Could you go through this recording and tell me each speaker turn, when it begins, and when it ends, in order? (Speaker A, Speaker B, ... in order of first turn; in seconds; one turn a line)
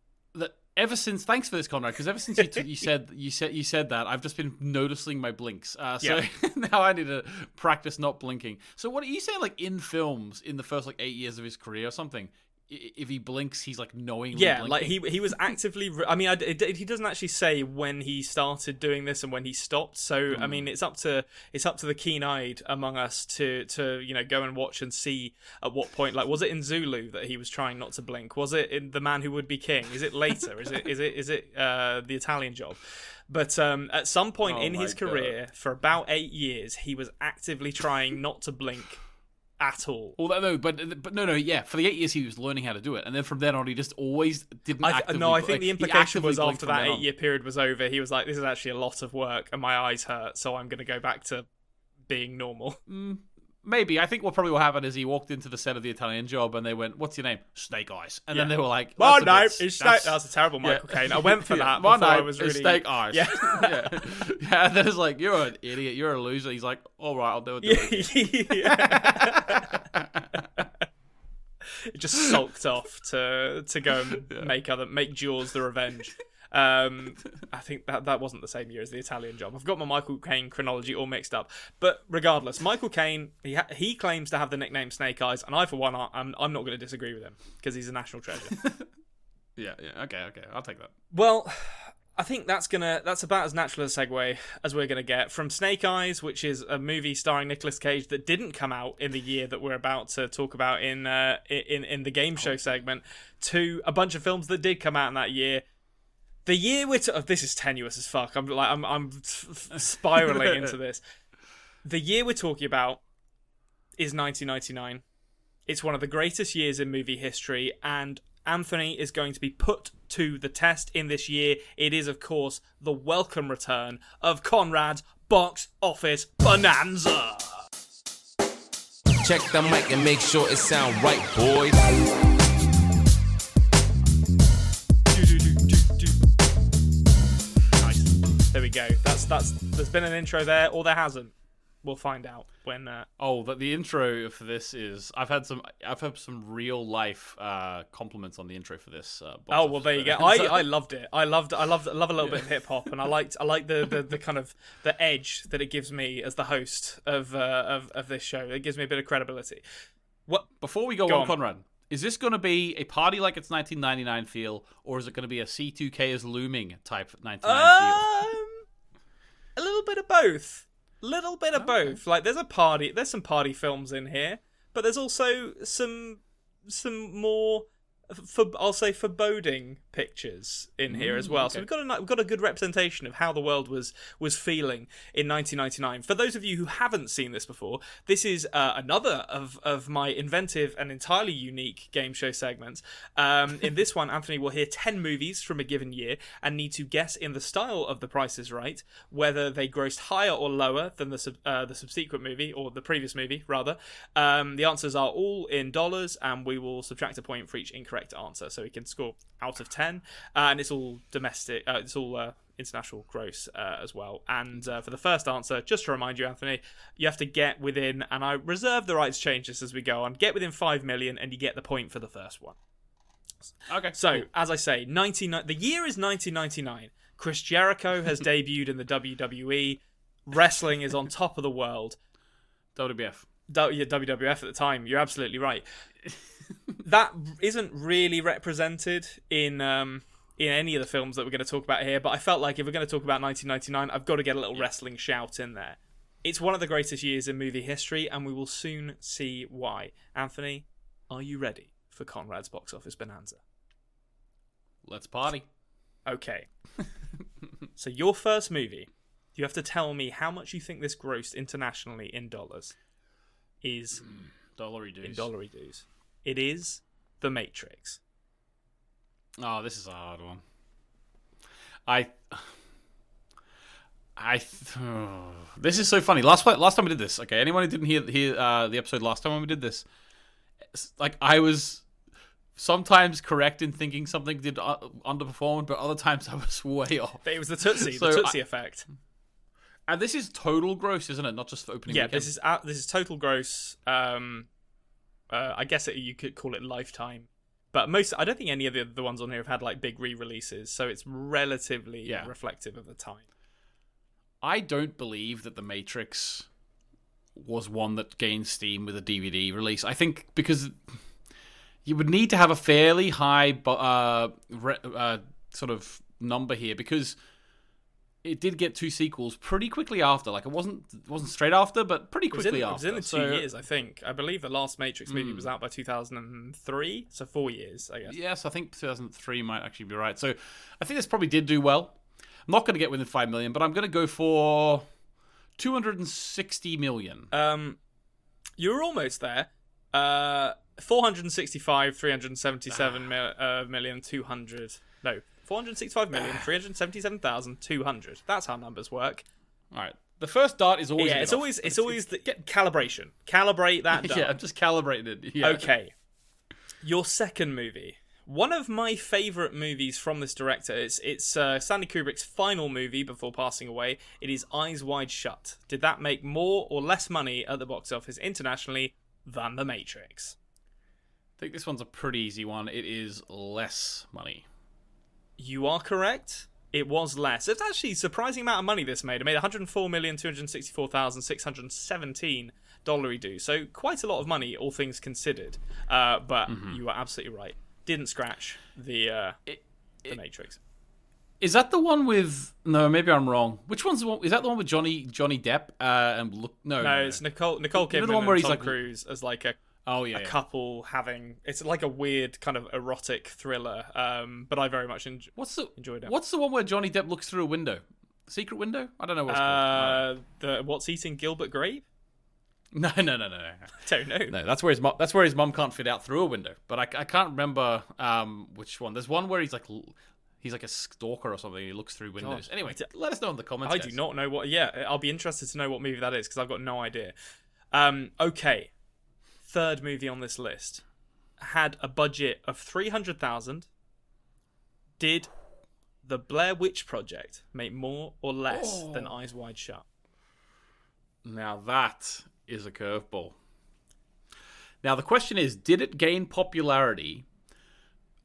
Speaker A: 0.3-15.0
Speaker B: 14.3-39.0
Speaker A: 20.3-20.7
Speaker A: 34.5-35.4
Speaker B: 39.6-40.2
Speaker A: 40.2-47.1
Speaker B: 44.8-51.5
Speaker B: 52.1-52.8
Speaker A: 52.9-70.6
Speaker B: 58.3-64.0
Speaker B: 67.6-69.7
Speaker B: 71.9-88.6
Speaker A: 89.6-90.9
Speaker B: 91.1-105.6
Speaker B: 106.5-111.0
Speaker A: 110.3-110.6
Speaker B: 111.8-113.0
Speaker B: 114.0-115.0
Speaker B: 115.7-127.6
Speaker C: 129.2-131.8
Speaker B: 138.5-143.1
Speaker A: 143.2-150.6
Speaker B: 149.5-159.6
Speaker A: 152.2-152.5
Speaker A: 160.6-168.1
Speaker B: 161.1-161.3
Speaker B: 167.4-168.7
Speaker B: 169.6-222.6
Speaker A: 180.9-181.7
Speaker A: 223.7-224.3
Speaker B: 223.9-232.0
Speaker A: 232.8-233.3
Speaker B: 233.5-235.6
Speaker B: 236.8-253.4
Speaker A: 254.8-255.5
Speaker B: 256.1-256.5
Speaker B: 257.8-262.8
Speaker B: 263.6-264.0
Speaker A: 264.0-265.3
Speaker B: 265.0-268.0
Speaker A: 269.4-270.4
Speaker A: 271.9-272.6
Speaker A: 274.2-279.9
Speaker A: 280.7-281.9
Speaker A: 282.6-288.4
Speaker B: 287.2-288.9
Speaker A: 289.9-292.3
Speaker B: 291.9-294.5
Speaker B: 295.3-303.2
Speaker A: 302.1-302.3
Speaker A: 304.4-306.5
Speaker A: 307.4-311.0
Speaker A: 311.9-317.2
Speaker A: 318.2-323.4
Speaker B: 322.3-328.1
Speaker A: 325.1-325.5
Speaker A: 328.1-334.9
Speaker A: 335.6-337.3
Speaker B: 337.3-337.8
Speaker B: 338.6-349.2
Speaker A: 342.7-343.1
Speaker A: 346.1-346.4
Speaker A: 349.7-352.1
Speaker B: 351.0-354.3
Speaker A: 354.0-355.7
Speaker B: 355.4-355.9
Speaker B: 356.8-370.4
Speaker A: 371.4-374.5
Speaker B: 375.4-389.4
Speaker A: 386.5-386.8
Speaker A: 389.5-390.2
Speaker B: 390.1-390.6
Speaker A: 391.4-397.2
Speaker B: 396.8-399.6
Speaker A: 397.8-398.8
Speaker A: 399.9-400.4
Speaker B: 400.1-406.1
Speaker A: 405.4-410.1
Speaker B: 409.3-411.9
Speaker A: 412.7-413.7
Speaker B: 413.8-414.3
Speaker A: 414.3-424.0
Speaker B: 422.2-422.9
Speaker B: 423.6-427.1
Speaker B: 427.7-428.7
Speaker B: 429.4-430.8
Speaker B: 431.4-433.7
Speaker B: 435.0-435.3
Speaker B: 436.0-439.9
Speaker A: 438.5-439.2
Speaker A: 441.2-443.4
Speaker A: 444.8-447.3